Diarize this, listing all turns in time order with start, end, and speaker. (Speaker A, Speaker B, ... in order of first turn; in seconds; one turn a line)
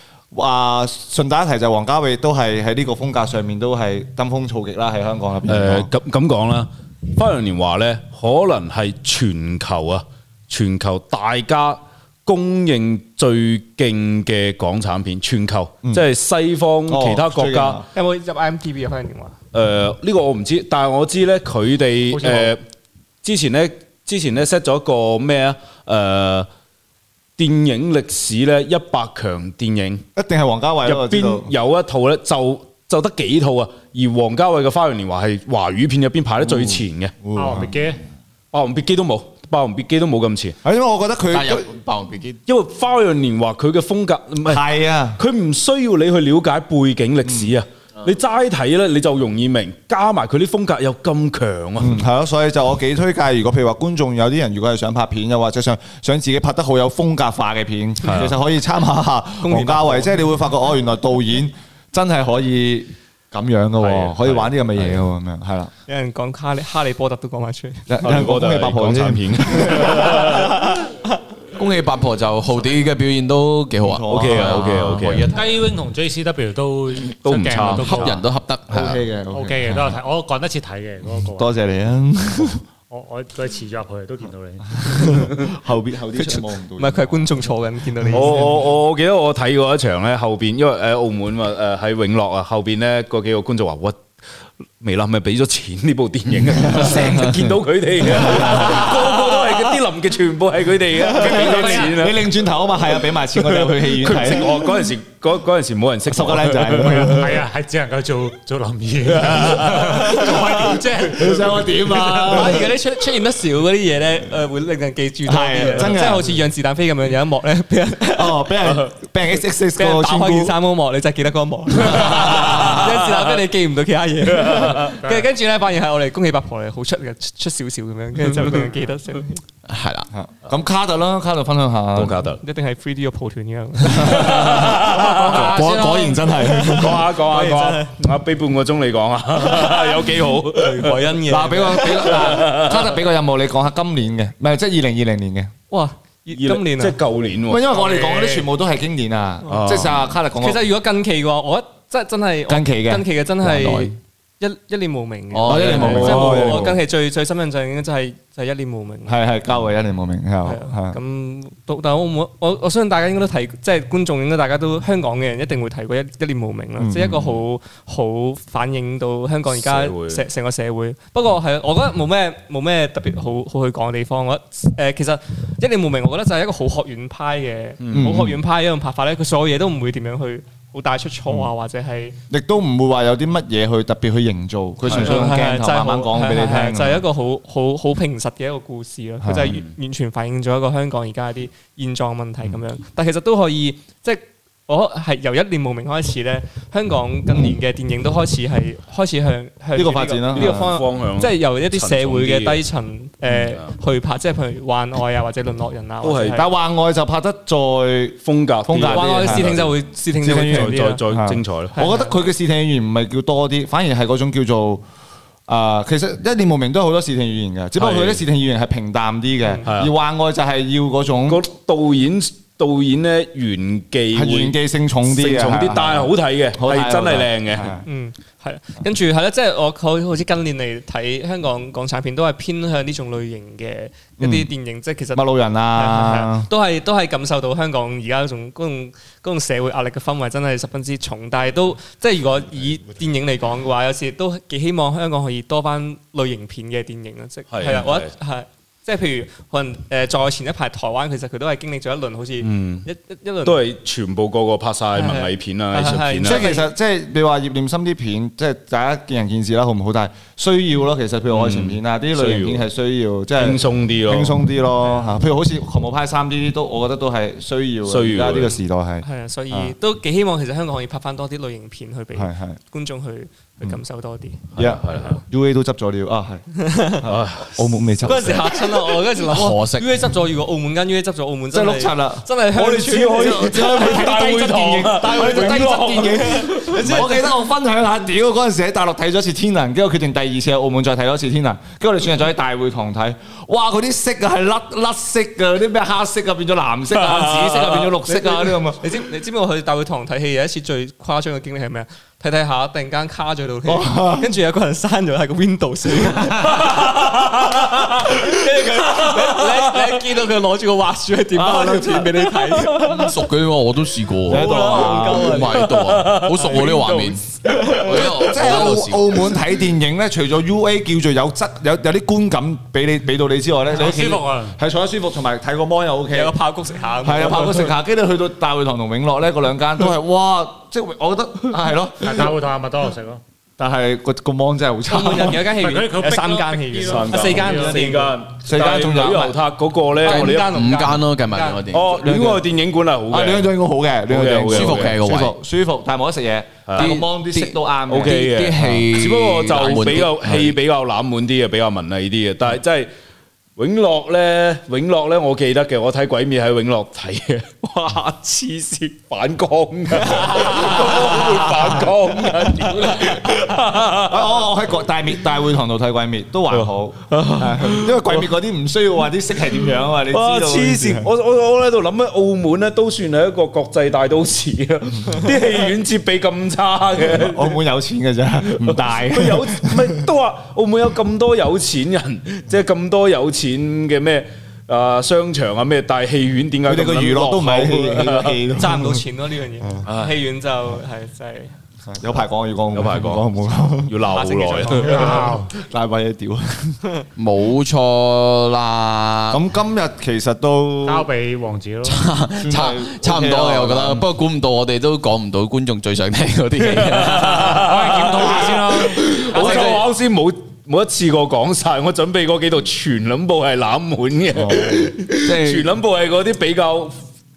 Speaker A: 0.3-5.9
Speaker B: 5.5-17.8
Speaker A: 16.9-17.8
Speaker C: 17.9-19.4
Speaker B: 19.5-22.6
Speaker B: 23.2-26.5
Speaker B: 27.4-30.1
Speaker A: 30.1-31.5
Speaker B: 30.8-37.1
Speaker A: 36.5-37.9
Speaker D: 37.3-38.0
Speaker B: 38.5-40.6
Speaker A: 40.6-41.7
Speaker E: 41.3-42.4
Speaker B: 42.5-44.6
Speaker A: 44.4-45.2
Speaker B: 45.2-52.0
Speaker A: 51.8-65.7
Speaker B: 58.0-58.3
Speaker C: 59.4-60.2
Speaker B: 63.8-65.0
Speaker C: 65.9-67.9
Speaker A: 67.9-69.9
Speaker B: 68.0-70.6
Speaker C: 69.8-70.9
Speaker E: 71.5-75.6
Speaker A: 73.8-74.6
Speaker B: 74.1-75.3
Speaker D: 75.3-78.2
Speaker B: 77.1-78.2
Speaker E: 77.8-79.0
Speaker A: 78.7-79.9
Speaker D: 79.3-81.5
Speaker A: 81.4-82.6
Speaker D: 82.9-85.2
Speaker A: 84.9-87.2
Speaker C: 86.1-88.6
Speaker B: 88.1-94.1
Speaker B: 94.8-102.3
Speaker A: 96.7-97.2
Speaker D: 101.1-101.9
Speaker A: 101.2-104.7
Speaker B: 103.4-107.1
Speaker A: 106.1-107.4
Speaker D: 107.0-112.6
Speaker B: 109.1-109.9
Speaker A: 111.1-112.7
Speaker C: 112.0-118.8
Speaker A: 115.3-116.4
Speaker A: 118.1-120.5
Speaker C: 119.8-129.4
Speaker E: 129.7-130.1
Speaker A: 130.1-132.2
Speaker B: 131.9-132.4
Speaker C: 132.4-134.7
Speaker B: 134.0-135.8
Speaker A: 134.0-137.1
Speaker D: 135.5-136.1
Speaker C: 136.4-137.9
Speaker B: 136.6-141.1
Speaker C: 139.4-139.9
Speaker C: 140.5-142.4
Speaker A: 141.2-145.5
Speaker B: 142.1-142.8
Speaker C: 145.7-146.9
Speaker B: 146.3-147.6
Speaker A: 147.5-150.7
Speaker D: 147.7-148.4
Speaker B: 149.5-150.0
Speaker C: 150.4-159.2
Speaker A: 152.5-153.1
Speaker E: 153.4-153.9
Speaker E: 155.3-156.4
Speaker A: 155.5-156.8
Speaker B: 155.9-156.6
Speaker A: 159.1-161.0
Speaker C: 160.4-182.2
Speaker A: 166.8-167.3
Speaker B: 169.5-170.2
Speaker B: 177.8-178.2
Speaker A: 177.9-178.4
Speaker A: 182.3-187.0
Speaker B: 184.8-185.3
Speaker C: 184.9-206.5
Speaker A: 189.2-189.5
Speaker A: 199.8-200.6
Speaker B: 200.3-202.6
Speaker B: 206.0-206.5
Speaker A: 206.3-209.5
Speaker B: 208.2-209.7
Speaker C: 208.9-211.0
Speaker A: 210.2-214.8
Speaker B: 210.4-211.8
Speaker C: 211.7-212.2
Speaker A: 215.5-221.4
Speaker B: 217.8-218.2
Speaker C: 219.4-219.7
Speaker B: 219.7-219.9
Speaker B: 221.3-227.8
Speaker A: 224.1-227.8
Speaker C: 227.8-235.2
Speaker A: 234.2-234.5
Speaker A: 235.1-236.5
Speaker C: 235.7-253.6
Speaker B: 247.5-248.1
Speaker B: 252.4-252.9
Speaker B: 253.4-256.5
Speaker C: 254.9-256.7
Speaker A: 256.2-269.8
Speaker B: 261.3-262.6
Speaker B: 263.4-264.4
Speaker B: 267.8-268.6
Speaker C: 269.0-275.2
Speaker A: 272.1-272.6
Speaker B: 274.6-275.2
Speaker A: 274.6-278.6
Speaker C: 276.6-277.0
Speaker B: 277.0-278.4
Speaker C: 278.0-283.9
Speaker E: 279.2-279.9
Speaker A: 281.5-282.3
Speaker B: 282.5-287.1
Speaker A: 283.1-298.9
Speaker C: 284.9-287.3
Speaker B: 297.0-297.9
Speaker C: 298.0-306.8
Speaker A: 303.7-304.3
Speaker B: 306.7-307.9
Speaker C: 307.9-313.1
Speaker B: 308.9-309.8
Speaker A: 311.3-312.2
Speaker E: 312.8-319.3
Speaker A: 314.3-315.3
Speaker C: 314.3-315.7
Speaker B: 315.5-318.1
Speaker A: 317.8-326.4
Speaker D: 323.7-324.6
Speaker C: 326.1-327.7
Speaker A: 327.0-332.3
Speaker D: 332.0-333.2
Speaker A: 333.6-335.4
Speaker C: 334.9-338.1
Speaker D: 335.4-337.9
Speaker B: 336.8-340.8
Speaker A: 338.3-339.4
Speaker C: 340.0-341.6
Speaker E: 340.0-342.0
Speaker B: 341.7-343.5
Speaker A: 342.0-342.4
Speaker A: 343.1-348.8
Speaker B: 344.1-344.9
Speaker E: 344.5-345.3
Speaker B: 346.7-347.0
Speaker E: 346.8-350.4
Speaker B: 347.9-352.9
Speaker B: 353.6-364.4
Speaker A: 363.9-371.1
Speaker B: 366.5-368.3
Speaker B: 370.1-377.6
Speaker A: 377.1-380.0
Speaker B: 378.6-388.4
Speaker A: 386.7-389.0
Speaker C: 388.6-391.5
Speaker B: 389.8-390.1
Speaker A: 391.9-394.0
Speaker B: 392.7-393.2
Speaker B: 393.9-395.0
Speaker C: 394.1-395.2
Speaker D: 394.8-395.5
Speaker A: 394.8-396.8
Speaker E: 397.2-399.4
Speaker A: 399.3-401.1
Speaker D: 400.8-402.1
Speaker E: 401.8-408.6
Speaker A: 402.4-404.1
Speaker B: 406.7-416.9
Speaker D: 407.3-409.8
Speaker E: 409.1-409.8
Speaker A: 414.4-414.9
Speaker E: 415.2-415.7